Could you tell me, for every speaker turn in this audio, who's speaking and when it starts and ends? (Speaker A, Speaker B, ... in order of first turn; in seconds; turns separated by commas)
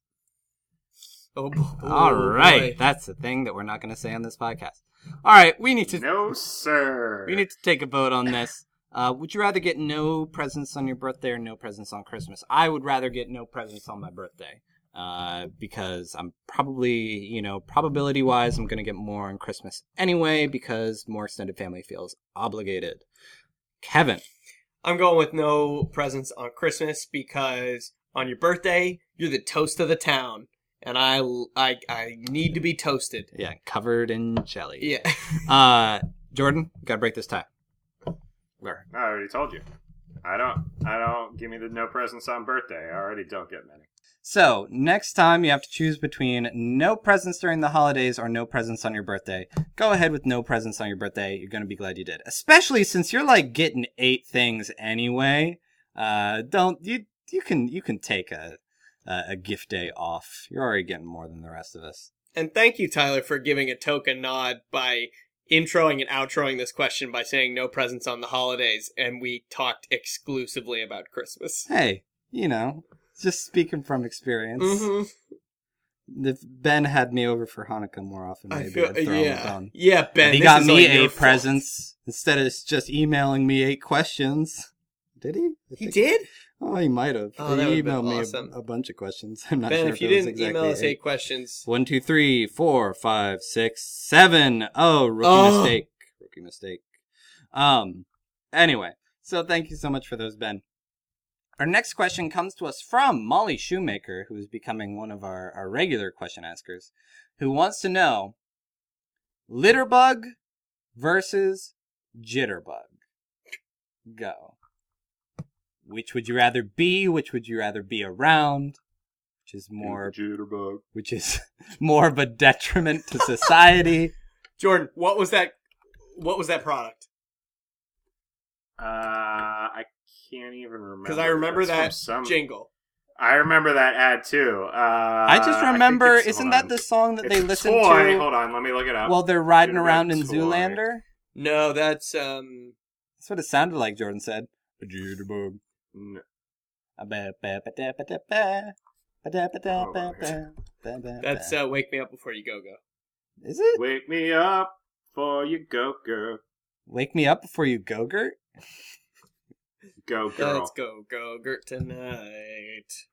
Speaker A: 1.4-2.8, Speaker B: 1.8-6.1, Speaker C: 5.9-7.4, Speaker B: 7.3-23.0, Speaker B: 23.8-24.2, Speaker A: 24.8-33.3, Speaker B: 33.3-37.5, Speaker A: 34.8-35.4, Speaker C: 38.9-39.6, Speaker C: 40.2-43.9, Speaker B: 44.2-62.1, Speaker A: 62.4-71.7, Speaker B: 71.7-74.9, Speaker A: 74.6-75.1, Speaker B: 76.1-86.0, Speaker A: 78.5-81.5, Speaker A: 85.8-86.3, Speaker B: 86.6-91.0, Speaker A: 87.4-88.5, Speaker A: 89.7-91.7, Speaker B: 91.7-96.9, Speaker A: 95.2-95.8, Speaker B: 97.5-100.6, Speaker B: 101.6-108.3, Speaker B: 109.5-110.3, Speaker B: 111.0-112.9, Speaker B: 114.1-114.5, Speaker B: 115.8-118.8, Speaker B: 119.5-120.2, Speaker C: 119.8-120.8, Speaker B: 120.9-124.1, Speaker A: 124.6-125.6, Speaker A: 126.1-127.1, Speaker C: 128.8-132.4, Speaker A: 131.1-132.7, Speaker C: 133.2-140.8, Speaker B: 135.3-138.3, Speaker B: 139.1-141.0, Speaker A: 141.4-142.7, Speaker B: 143.2-145.6, Speaker C: 145.9-146.2, Speaker B: 147.0-151.5, Speaker C: 149.7-150.4, Speaker A: 151.2-152.8, Speaker B: 153.4-153.8, Speaker C: 153.8-156.4, Speaker B: 156.9-158.4, Speaker C: 160.0-160.7, Speaker A: 160.4-163.0